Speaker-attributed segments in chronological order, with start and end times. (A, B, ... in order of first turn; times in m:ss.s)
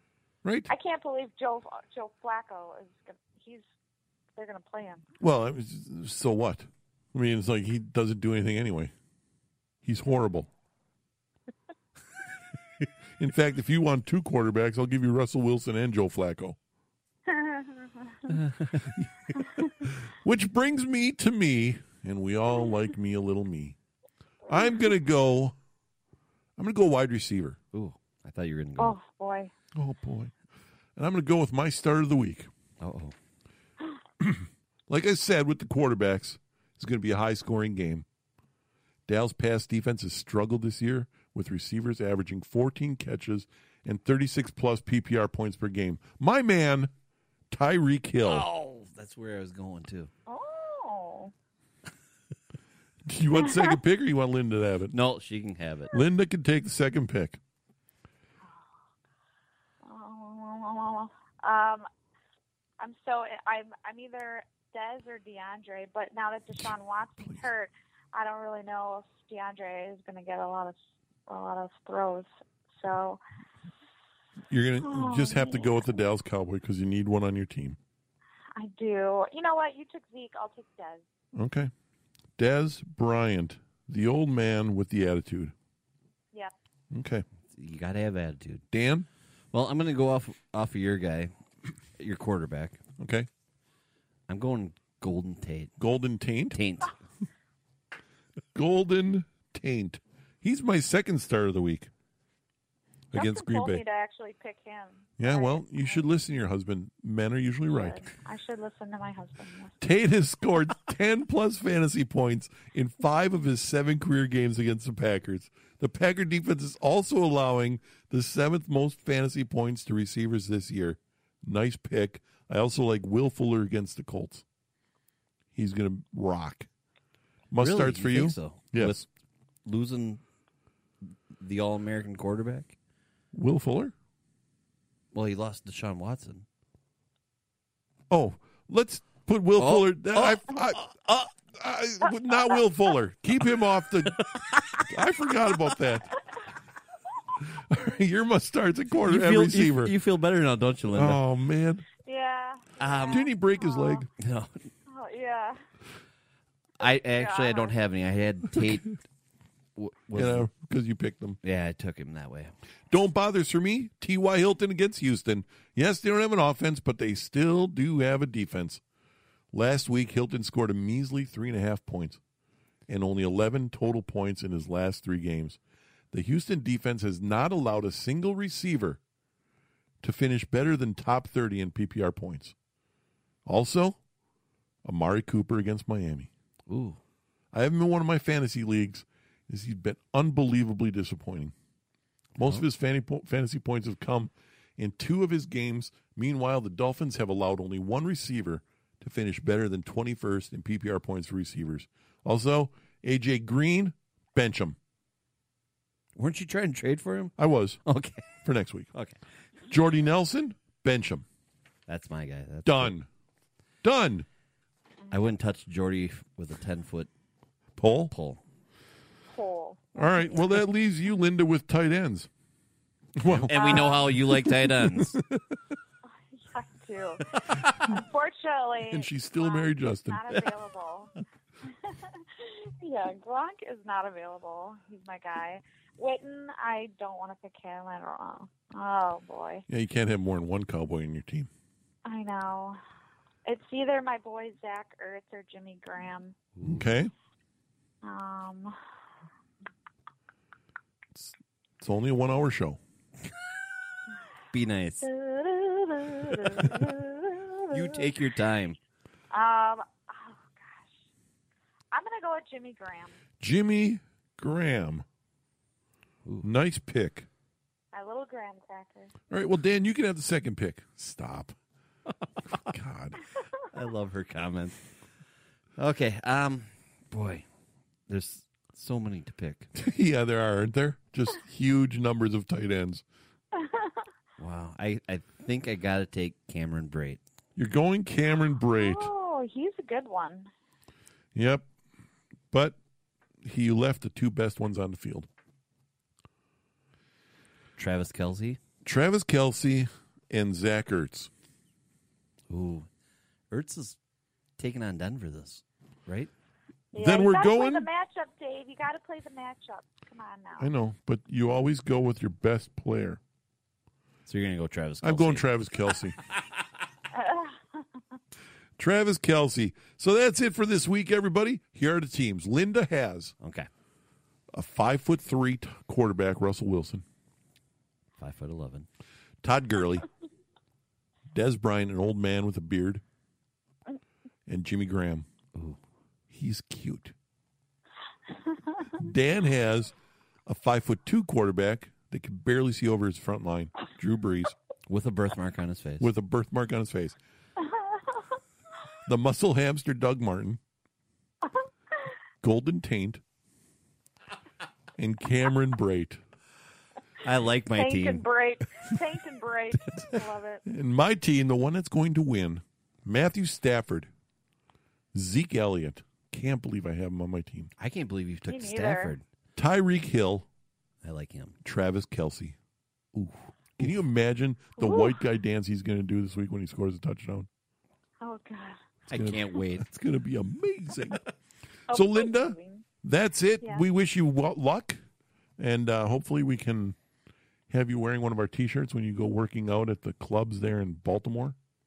0:00.4-0:00.7 A
0:00.7-0:03.6 B
0:04.4-0:05.0 B
0:05.2-0:08.9 A
0:09.8-0:10.5 A
0:13.2-0:16.6 A
0:17.3-0:18.2 B
0:18.3-0:19.0 C
0:19.6-0:23.8 A
0:24.5-0:25.6 A
0:26.6-0:27.6 A
0:27.7-0:29.0 C
0:28.8-0:29.5 B
0:29.7-0:30.3 A
0:31.0-0:32.5 A
0:32.8-0:33.1 C
0:34.2-0:38.0 A
0:39.1-0:46.9 A
0:47.5-0:48.4 A
0:48.2-0:50.1 C
0:50.3-0:51.3 B
0:53.0-0:54.9 A
0:54.9-0:55.9 C
0:55.9-0:57.4 A
0:59.8-1:01.9 B
1:02.8-1:13.2 B
1:06.6-1:07.5 A
1:14.5-1:17.8 A
1:14.8-1:15.9 B
1:18.6-1:21.0 B
1:21.3-1:21.7 A
1:22.4-1:25.5 A
1:26.9-1:27.2 A
1:27.5-1:28.6 C
1:28.7-1:29.1 A
1:29.5-1:31.3 C
1:32.0-1:32.8 C
1:33.0-1:33.3 A
1:34.3-1:35.7 C
1:35.8-1:36.6 A
1:36.5-1:36.9 C
1:38.5-1:41.9 A
1:43.1-1:43.8 A
1:43.1-1:46.0 B
1:45.2-1:48.0 A
1:47.7-1:49.7 B
1:49.8-2:04.4 A
2:05.5-2:06.7 A
2:07.5-2:09.0 A
2:07.6-2:09.1 C
2:09.6-2:10.2 C
2:11.4-2:12.8 C
2:13.3-2:13.9 A
2:15.1-2:16.4 C
2:18.1-2:24.2 A
2:19.6-2:20.9 C
2:24.2-2:24.9 C
2:24.9-2:26.1 A
2:27.4-2:29.9 A
2:29.0-2:31.2 C
2:30.9-2:31.8 A
2:32.0-2:34.0 B
2:32.8-2:33.3 C
2:33.1-2:34.1 A
2:34.2-2:34.6 C
2:34.9-2:35.6 B
2:36.8-2:39.0 C
2:37.2-2:37.8 B
2:39.8-2:40.5 C
2:40.1-2:41.4 A
2:41.4-2:42.5 C
2:42.9-2:48.8 A
2:49.5-2:52.2 A
2:52.9-2:55.6 A
2:56.1-2:59.0 A
3:00.0-3:02.5 A
3:03.4-3:04.0 A
3:04.8-3:06.3 A
3:06.7-3:07.0 C
3:07.5-3:11.5 A
3:12.4-3:12.6 C
3:12.4-3:24.8 A
3:26.2-3:27.3 C
3:27.4-3:27.8 A
3:27.8-3:28.3 C
3:28.4-3:28.9 A
3:29.7-3:31.2 A
3:31.9-3:32.9 C
3:32.6-3:33.1 A
3:33.8-3:34.2 A
3:35.1-3:37.1 C
3:37.8-3:38.1 A
3:38.1-3:38.4 C
3:39.3-3:40.4 B
3:39.9-3:42.3 A
3:43.2-3:45.4 A
3:43.2-3:45.2 C
3:43.5-3:44.3 B
3:46.3-3:51.1 B
3:48.9-3:50.5 A
3:51.6-3:59.6 B
3:59.7-4:01.5 A
4:02.0-4:02.8 B
4:03.4-4:06.4 B
4:06.6-4:06.9 C
4:06.6-4:07.1 A
4:08.0-4:08.8 B
4:11.1-4:12.8 A
4:14.5-4:15.1 C
4:15.0-4:18.0 B
4:17.7-4:18.8 C
4:19.3-4:20.8 B
4:21.9-4:23.2 B
4:23.4-4:25.0 A
4:26.4-4:27.3 A
4:27.9-4:29.1 B
4:29.3-4:31.6 A
4:32.5-4:33.2 A
4:33.7-4:34.8 C
4:35.8-4:37.4 C
4:38.1-4:39.7 C
4:39.7-4:43.0 A
4:43.6-4:44.0 B
4:44.4-4:47.2 C
4:47.6-4:49.1 A
4:48.7-4:50.5 B
4:51.3-4:51.6 A
4:52.5-4:52.8 A
4:53.4-4:55.3 A
4:57.8-4:58.6 C
4:58.8-5:01.3 A
5:02.5-5:02.9 C
5:03.5-5:04.0 C
5:04.6-5:06.3 C
5:06.9-5:07.9 A
5:06.9-5:10.7 B
5:10.6-5:13.2 A
5:14.2-5:15.5 C
5:15.0-5:16.2 A
5:17.1-5:17.8 B
5:18.8-5:23.3 A
5:23.4-5:23.7 C
5:24.5-5:27.0 A
5:28.2-5:28.9 C
5:29.4-5:30.1 A
5:31.3-5:33.0 A
5:34.5-5:35.3 A
5:36.3-5:37.1 A
5:39.0-5:39.9 A
5:40.4-5:44.5 A
5:44.9-5:46.1 C
5:46.0-5:47.2 A
5:49.0-5:50.6 A
5:52.4-5:53.2 A
5:55.0-5:56.2 A
5:57.2-5:58.2 C
5:57.7-6:00.6 B
6:00.6-6:04.1 A
6:05.1-6:07.7 A
6:07.8-6:09.2 C
6:08.5-6:09.1 B
6:09.6-6:10.5 A
6:11.0-6:11.6 C
6:11.6-6:12.6 A
6:13.1-6:17.5 A
6:14.8-6:15.2 B
6:18.2-6:18.8 B
6:19.1-6:19.9 C
6:19.1-6:21.2 A
6:21.9-6:25.0 A
6:21.9-6:22.8 B
6:25.6-6:27.0 A
6:27.7-6:31.6 A